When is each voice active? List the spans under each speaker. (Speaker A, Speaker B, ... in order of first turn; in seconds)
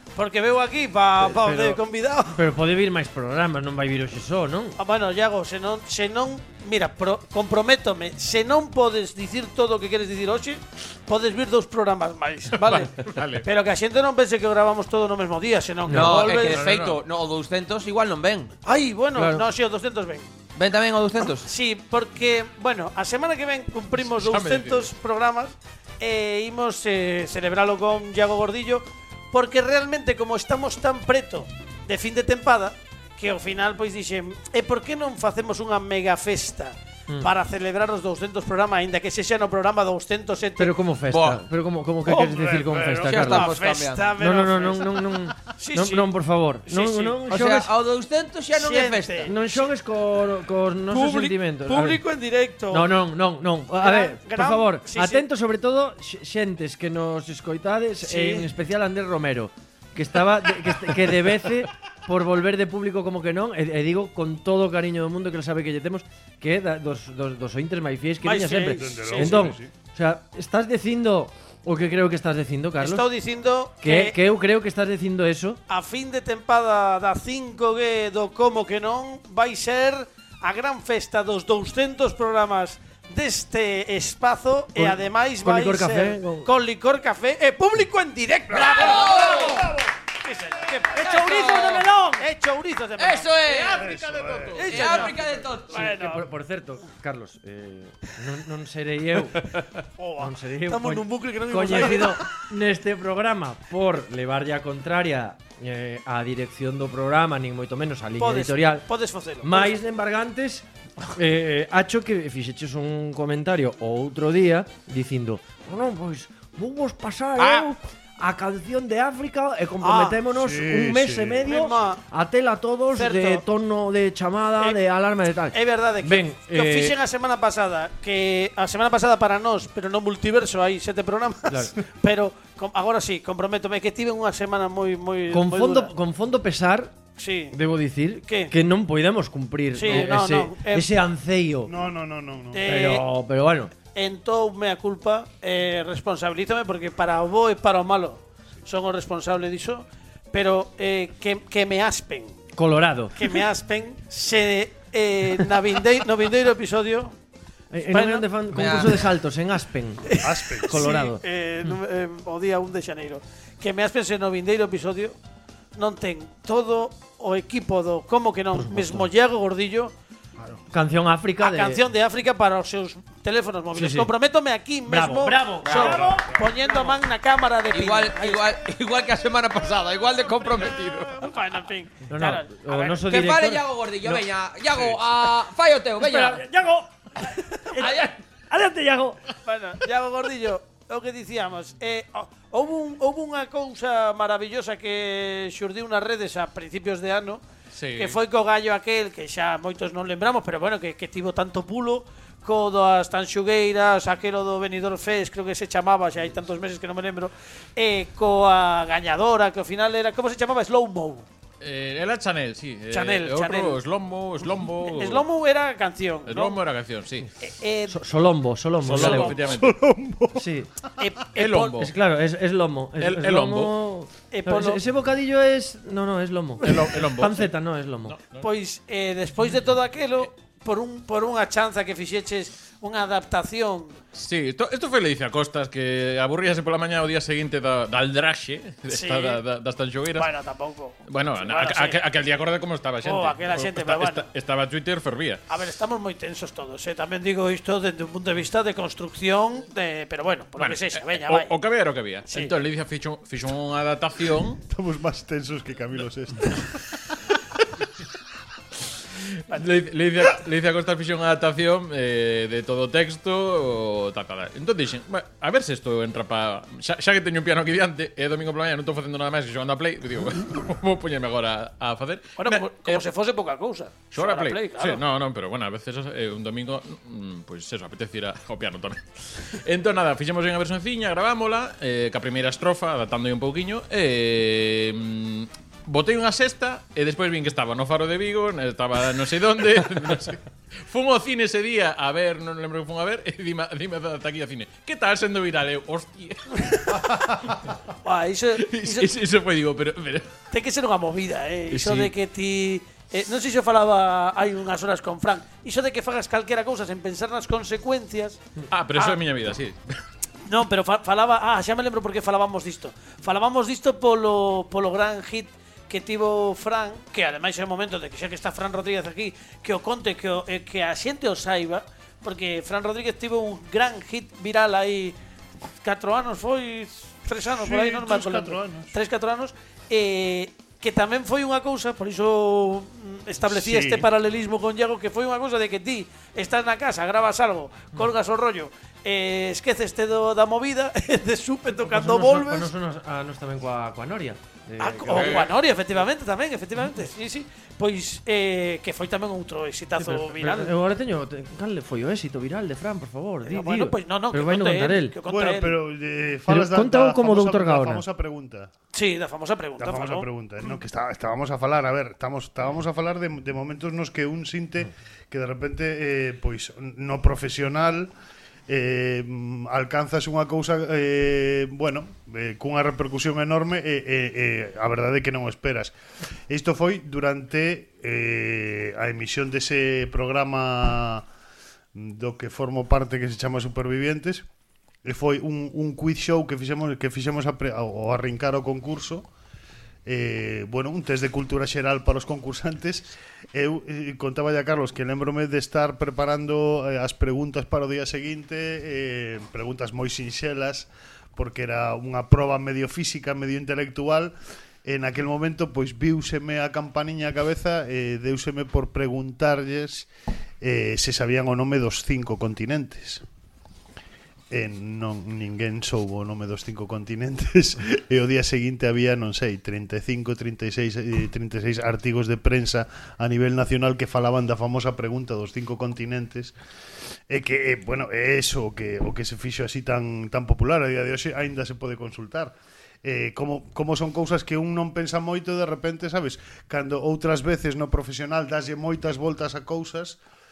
Speaker A: 0.1-2.4, 4.8-16.7, 18.6-20.3, 21.4-40.7, 42.0-45.0, 45.6-46.1, 46.7-47.2, 48.5-49.6, 50.9-52.9, 53.8-55.2, 58.0-58.5, 68.2-69.5, 72.8-74.2, 75.7-89.7, 90.2-93.7, 94.5-96.2, 100.0-102.2, 108.2-109.7, 117.4-117.7, 119.8-120.2, 121.5-122.0, 122.9-123.4, 125.5-135.9, 137.2-137.6, 138.3-138.5, 139.7-140.9, 142.5-143.1, 143.9-152.4, 153.2-157.1, 157.9-158.3, 160.1-165.2, 165.8-169.9, 171.4-178.4, 181.1-183.0, 189.4-197.4, 198.0-211.2, 212.9-213.8, 214.8-216.6, 217.4-217.9, 219.0-219.4, 221.0-221.8, 224.3-224.8, 228.4-234.0, 238.9-239.4, 240.1-242.0, 243.0-244.2, 245.5-251.5, 272.4-275.0, 298.0-299.1, 300.5-308.4, 310.4-325.1, 325.8-342.7, 344.8-350.7, 353.4-355.7, 358.9-360.3
Speaker B: 1.2-1.8, 2.3-4.8, 15.8-16.2, 19.1-19.4, 40.6-43.5, 44.2-47.7, 49.2-52.0, 52.7-73.0, 73.8-75.6, 84.8-86.5, 91.6-92.1, 95.7-99.6, 100.2-108.9, 109.4-126.9, 131.5-131.7, 135.3-136.9, 137.5-141.7, 142.6-143.7, 152.6-153.2, 157.7-161.2, 168.6-169.1, 170.7-171.8, 173.7-174.1, 174.9-176.9, 182.1-184.2, 186.0-186.8, 188.5-189.2, 217.9-219.4, 220.3-220.7, 221.8-228.1, 341.8-345.4, 350.0-355.1, 356.4-358.0
Speaker C: 12.6-13.4, 16.4-17.0, 24.0-24.9, 93.5-95.1, 197.7-198.2, 211.6-215.2, 216.2-217.3, 218.8-219.8, 221.3-221.9, 223.0-223.8, 226.6-227.5, 228.1-228.4, 234.1-240.3, 241.1-245.4, 250.6-254.6, 259.5-273.1, 274.1-297.7, 298.6-300.3, 301.7-302.1, 308.7-309.8, 345.1-345.5
Speaker D: 15.9-18.5, 20.6-21.5, 41.1-41.4, 43.0-44.1, 47.3-49.4, 88.7-89.7, 91.0-91.9, 93.0-93.8, 94.6-95.9, 158.5-159.0, 175.6-176.1, 177.7-181.1, 183.1-186.4, 187.8-188.1
Speaker E: 68.7-69.7, 88.5-89.4, 93.8-94.7, 120.3-121.5, 141.7-142.6, 160.2-160.9, 175.8-176.2, 219.4-220.4, 254.7-256.8, 327.6-328.9, 333.5-334.1, 355.2-358.7, 359.8-368.1, 368.7-375.9, 376.5-381.2, 381.9-384.4, 385.0-389.3, 390.1-410.1, 410.6-413.2, 414.5-426.5, 427.3-440.2